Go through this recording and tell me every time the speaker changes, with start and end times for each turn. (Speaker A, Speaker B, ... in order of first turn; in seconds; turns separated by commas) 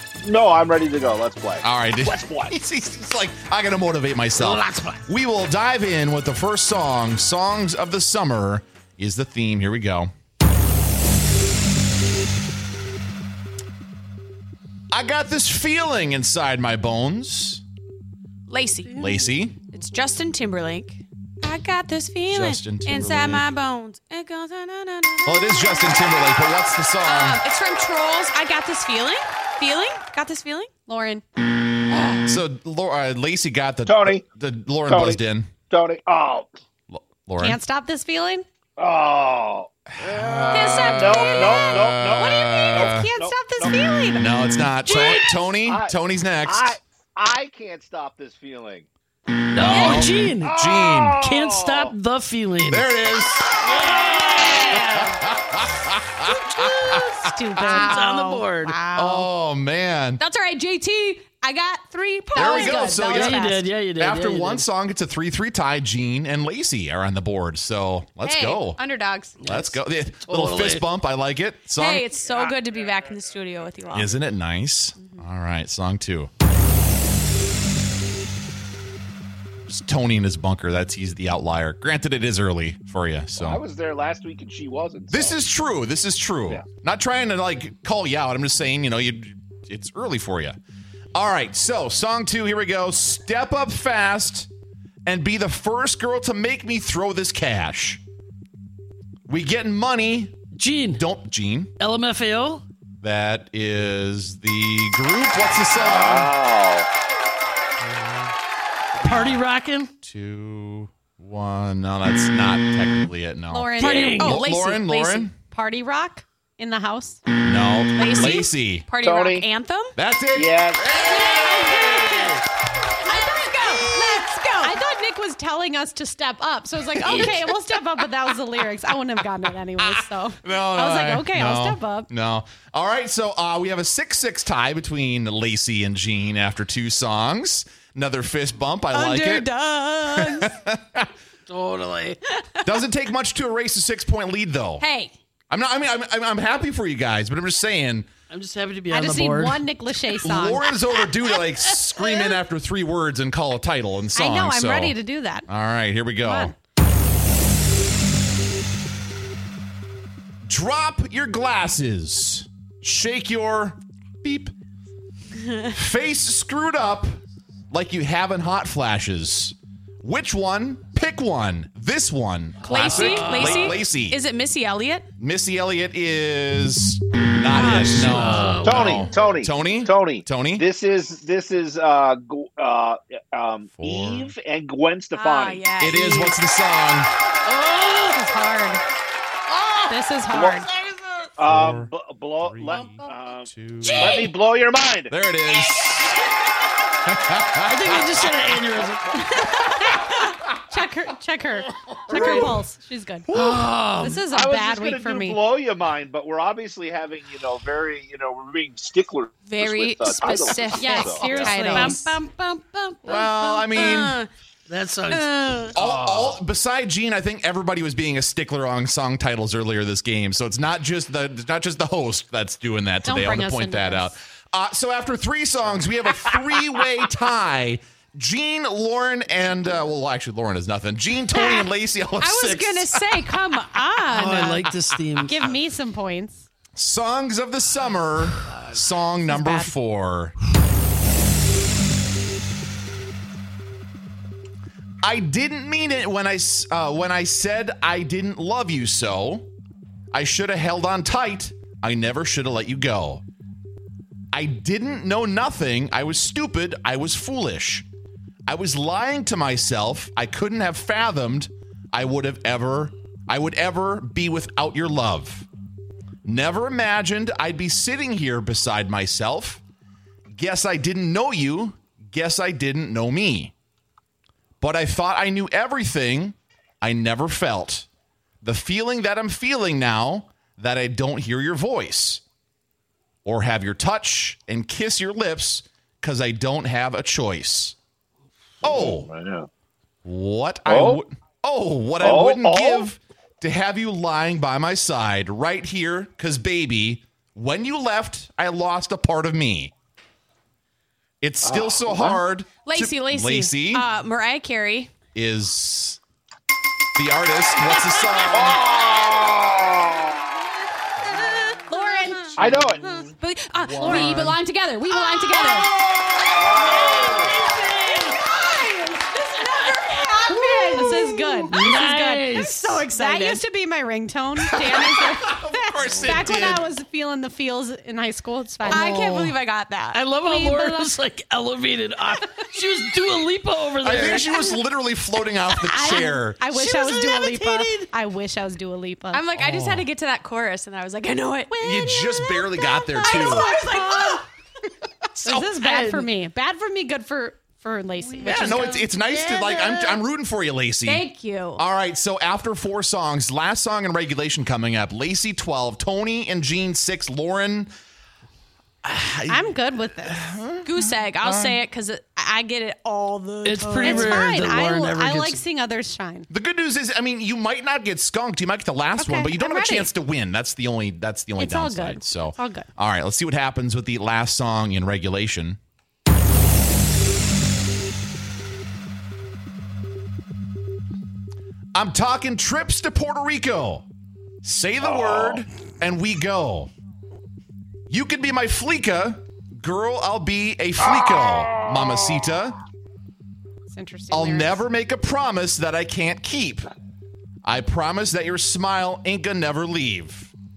Speaker A: 0.2-2.5, Speaker B: 1.6-10.1, Speaker C: 4.4-5.0, Speaker B: 14.9-17.6, Speaker D: 18.5-25.9, Speaker B: 18.9-19.6, Speaker B: 22.3-23.5, Speaker B: 25.2-27.4, Speaker D: 27.0-30.7, Speaker E: 30.9-31.2, Speaker B: 32.2-35.5, Speaker A: 33.9-34.2, Speaker A: 34.9-36.5, Speaker B: 36.9-37.6, Speaker E: 37.4-38.5, Speaker A: 38.8-43.8, Speaker B: 39.9-43.1, Speaker D: 40.5-41.6, Speaker E: 41.5-44.3, Speaker D: 42.4-42.8, Speaker B: 44.1-46.8, Speaker C: 44.9-45.3, Speaker A: 45.6-48.9, Speaker C: 49.5-50.5, Speaker B: 49.6-51.2, Speaker D: 49.6-50.1, Speaker A: 50.4-51.9, Speaker C: 51.2-52.9, Speaker B: 52.7-53.7, Speaker C: 53.6-55.2, Speaker A: 53.7-54.8, Speaker B: 54.6-57.3, Speaker C: 56.5-57.0, Speaker E: 57.0-58.0, Speaker C: 57.6-58.8, Speaker D: 57.6-59.2, Speaker E: 58.6-59.2, Speaker B: 58.9-60.2, Speaker D: 60.2-63.0, Speaker E: 62.2-63.6, Speaker B: 62.3-68.8, Speaker C: 62.6-64.7, Speaker D: 68.2-69.4, Speaker C: 69.4-70.8, Speaker B: 69.5-72.1, Speaker D: 71.7-74.2, Speaker B: 73.9-76.3, Speaker B: 79.7-83.6, Speaker A: 83.4-85.4, Speaker B: 85.1-90.6, Speaker B: 91.1-94.5, Speaker B: 95.0-98.0, Speaker B: 99.3-100.3, Speaker C: 100.5-101.0, Speaker B: 100.9-101.7, Speaker C: 101.8-102.6, Speaker B: 103.0-106.3, Speaker A: 105.8-106.9, Speaker B: 107.8-108.3, Speaker B: 109.0-109.4, Speaker C: 109.0-109.9, Speaker B: 110.0-115.3, Speaker E: 113.5-114.3, Speaker D: 113.8-115.3, Speaker C: 113.8-114.4, Speaker E: 115.4-117.2, Speaker B: 117.4-118.8, Speaker D: 117.9-119.9, Speaker A: 119.0-119.5, Speaker B: 120.0-122.2, Speaker A: 120.3-121.0, Speaker D: 121.2-122.2, Speaker E: 121.3-122.4, Speaker D: 123.0-124.7, Speaker E: 123.1-132.1, Speaker C: 127.0-127.4, Speaker B: 129.8-139.5, Speaker D: 138.9-140.6, Speaker B: 140.1-141.1, Speaker C: 141.5-142.2, Speaker D: 142.3-142.6, Speaker B: 142.6-144.8, Speaker D: 144.8-145.1, Speaker B: 145.5-148.1, Speaker C: 148.3-150.1, Speaker E: 148.9-150.8, Speaker B: 150.2-156.5, Speaker D: 152.0-152.3, Speaker E: 154.1-155.5, Speaker E: 156.2-156.5, Speaker B: 160.4-164.5, Speaker B: 165.7-167.1, Speaker B: 167.7-174.2, Speaker D: 172.6-175.1, Speaker C: 172.7-173.8, Speaker B: 175.2-180.7, Speaker D: 177.5-178.2, Speaker C: 177.6-179.1, Speaker A: 178.6-185.6, Speaker B: 183.7-184.3, Speaker D: 185.2-186.4, Speaker B: 185.8-187.1, Speaker C: 187.4-188.2, Speaker E: 188.1-188.8, Speaker E: 189.9-190.7, Speaker A: 190.3-190.6, Speaker A: 191.4-195.1, Speaker B: 191.4-194.2, Speaker C: 193.8-194.3, Speaker B: 195.1-196.2, Speaker B: 197.0-198.2, Speaker C: 197.6-199.4, Speaker E: 199.4-203.3, Speaker A: 202.1-202.6, Speaker B: 202.2-202.4, Speaker C: 203.3-204.2, Speaker E: 204.0-205.4, Speaker A: 204.3-211.8, Speaker D: 209.5-214.3, Speaker E: 210.7-212.2, Speaker B: 213.1-214.2, Speaker C: 214.7-215.6, Speaker D: 215.1-215.7, Speaker B: 215.7-233.3, Speaker A: 215.8-216.4, Speaker E: 223.1-224.1, Speaker D: 231.3-231.7, Speaker D: 232.2-234.7, Speaker C: 234.1-235.4, Speaker E: 235.2-236.4, Speaker B: 236.7-240.3, Speaker E: 239.3-239.7, Speaker B: 245.0-249.5, Speaker B: 250.1-253.2, Speaker B: 254.3-257.9, Speaker B: 258.5-265.5, Speaker B: 266.2-269.6, Speaker B: 270.3-273.5, Speaker B: 274.6-277.9, Speaker B: 278.4-282.2, Speaker B: 283.2-287.8, Speaker B: 288.6-289.1, Speaker A: 288.6-289.5, Speaker B: 290.0-299.7, Speaker A: 290.7-291.0, Speaker A: 292.0-292.9, Speaker B: 301.2-303.8, Speaker A: 301.4-302.2, Speaker D: 302.6-304.9, Speaker B: 305.1-306.0, Speaker B: 306.9-308.6, Speaker A: 308.3-310.2, Speaker D: 311.0-315.8, Speaker E: 311.8-312.4, Speaker B: 312.4-313.0, Speaker A: 312.4-312.9, Speaker B: 313.5-314.4, Speaker E: 313.8-314.2, Speaker E: 314.9-315.7, Speaker A: 316.4-317.3, Speaker D: 316.4-321.0, Speaker C: 316.8-318.2, Speaker B: 317.0-317.3, Speaker E: 318.1-318.6, Speaker E: 320.2-328.9, Speaker C: 321.5-322.9, Speaker D: 322.9-323.4, Speaker B: 324.4-326.7, Speaker C: 328.6-329.4, Speaker D: 328.7-330.9, Speaker C: 329.9-334.6, Speaker B: 333.8-336.8, Speaker E: 335.6-339.2, Speaker C: 336.7-337.9, Speaker D: 339.1-344.2, Speaker B: 339.3-339.9, Speaker E: 341.5-342.3, Speaker B: 341.6-343.5, Speaker E: 343.0-344.2, Speaker B: 345.0-345.5, Speaker E: 345.2-348.9, Speaker C: 345.3-346.1, Speaker C: 348.0-348.3, Speaker B: 348.2-357.7, Speaker D: 348.4-348.8, Speaker C: 348.9-350.0, Speaker D: 350.9-351.6, Speaker B: 358.8-361.6, Speaker E: 359.3-360.4, Speaker D: 360.6-364.2, Speaker C: 363.4-365.4, Speaker E: 363.5-366.3, Speaker B: 366.3-375.6, Speaker E: 369.0-369.9, Speaker E: 371.4-372.7, Speaker B: 381.7-383.9, Speaker B: 384.4-386.7, Speaker A: 384.8-385.4, Speaker B: 387.9-392.6, Speaker A: 390.8-392.4, Speaker E: 393.7-394.6, Speaker B: 394.1-396.7, Speaker B: 397.4-400.3